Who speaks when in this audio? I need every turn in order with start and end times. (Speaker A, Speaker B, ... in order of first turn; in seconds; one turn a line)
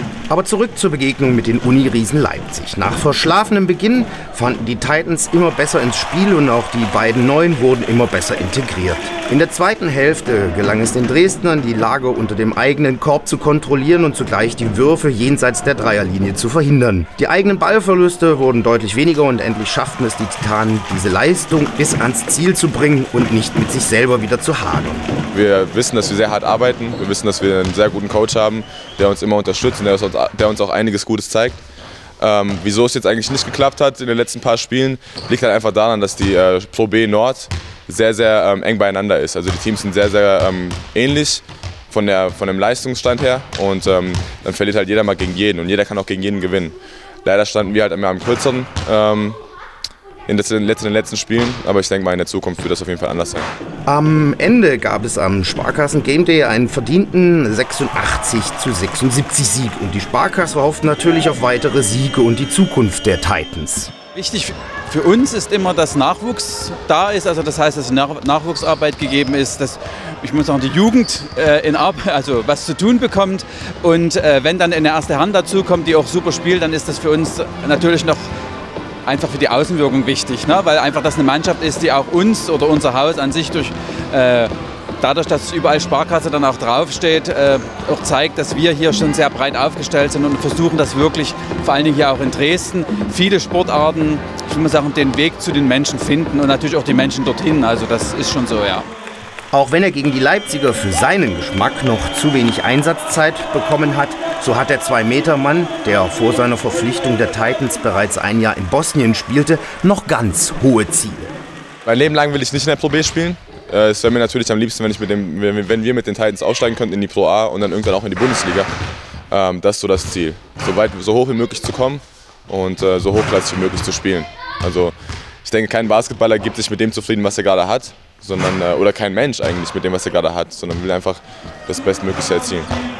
Speaker A: 0.3-25.1
Speaker B: 25.3-31.6
Speaker B: 32.2-49.4
Speaker B: 50.3-53.5
Speaker A: 53.9-63.9
Speaker C: 64.2-78.3
Speaker C: 79.1-98.9
Speaker A: 99.5-111.3
Speaker B: 111.8-118.7
Speaker B: 119.3-124.9
Speaker B: 125.5-132.7